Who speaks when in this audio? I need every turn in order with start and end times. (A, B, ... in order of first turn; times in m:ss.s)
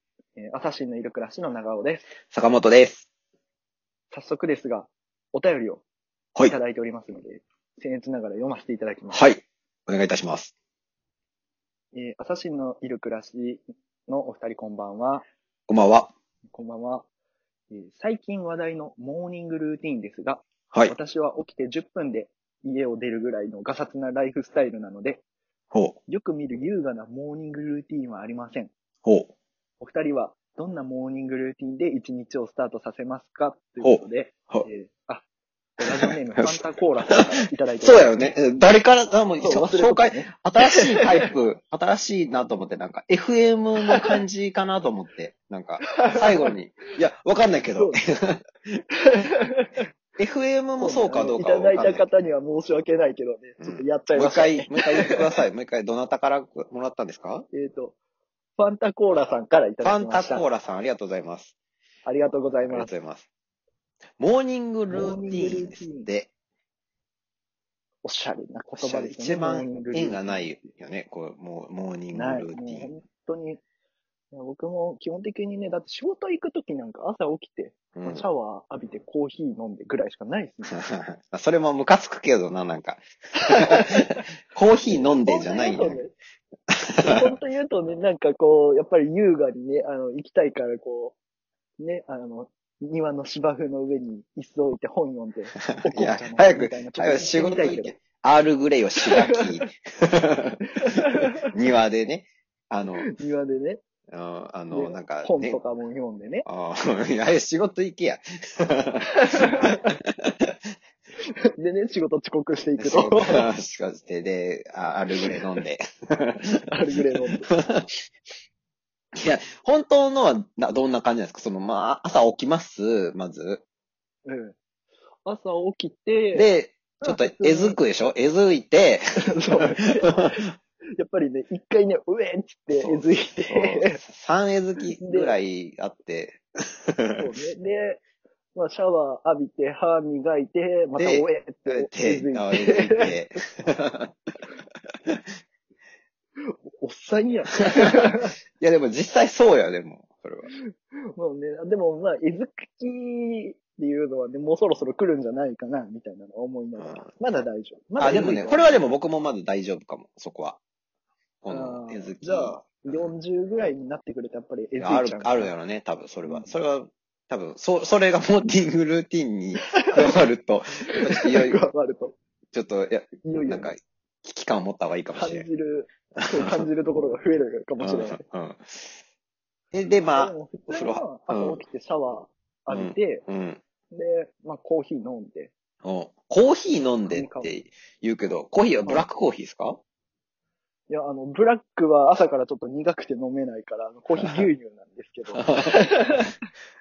0:00.4-0:02.1 A
0:02.3-0:03.1 B
0:04.1-0:05.8 A
0:06.5-0:09.3 A
0:09.1-0:10.5 B
0:11.9-0:15.2 A
0:15.7-0:16.1 B
0:16.5-0:17.1 A
0:17.7-0:25.2 A
0:25.7-0:26.0 B
0:26.1-0:28.7 A
0:29.0-0:29.3 B
0:29.8-0:35.2 A
0:33.8-0:34.7 B
0:35.8-0:38.3 A
0:37.8-0:48.4 B
0:39.4-0:41.3 A
0:46.0-0:46.5 A
0:47.6-0:48.0 A
0:49.0-0:49.8 A
0:50.2-0:52.1 B
0:50.8-0:55.2 A
0:53.6-0:57.5 B
0:57.5-0:58.0 A
0:58.6-1:00.5 A
0:59.8-1:01.5 B
1:02.0-1:02.9 A
1:02.7-1:03.3 B
1:04.2-1:06.3 B
1:04.9-1:06.1 A
1:08.0-1:10.2 A
1:08.8-1:12.9 B
1:12.1-1:13.6 A
1:14.3-1:20.8 A
1:18.0-1:18.3 B
1:20.7-1:26.0 B
1:23.4-1:24.1 A
1:24.9-1:26.1 A
1:26.7-1:27.2 B
1:26.8-1:31.2 A
1:31.8-1:37.9 A
1:35.6-1:40.6 B
1:40.8-1:41.4 A
1:41.4-1:43.1 B
1:42.9-1:43.8 A
1:44.1-1:45.6 B
1:44.7-1:46.5 A
1:46.4-1:50.5 B
1:49.2-1:49.8 A
1:51.6-1:53.5 A
1:52.8-1:56.6 B
1:56.7-1:57.5 A
1:57.5-1:58.0 B
1:59.2-2:03.6 B
2:04.3-2:04.6 A
2:05.2-2:06.5 A
2:06.3-2:10.4 B
2:07.0-2:07.8 A
2:09.3-2:14.0 A
2:12.8-2:17.2 B
2:15.0-2:15.4 A
2:17.2-2:18.0 A
2:18.6-2:23.4 A
2:21.0-2:24.2 B
2:26.5-2:28.3 A
2:27.8-2:28.1 B
2:28.6-2:30.5 B
2:30.6-2:38.8 A
2:36.8-2:37.1 B
2:38.0-2:40.6 B
2:41.4-2:43.1 B
2:41.5-2:45.5 A
2:44.8-2:51.6 B
2:46.2-2:46.5 A
2:49.6-2:50.1 A
2:51.1-2:52.2 A
2:52.5-2:55.5 B
2:53.2-2:53.7 A
2:55.1-2:58.2 A
2:56.2-2:56.7 B
2:57.8-2:58.9 B
2:59.7-3:01.6 B
3:00.1-3:03.2 A
3:02.7-3:03.6 B
3:03.9-3:05.5 A
3:05.8-3:09.8 B
3:07.0-3:07.5 A
3:10.9-3:16.3 A
3:14.2-3:14.5 B
3:15.3-3:15.9 B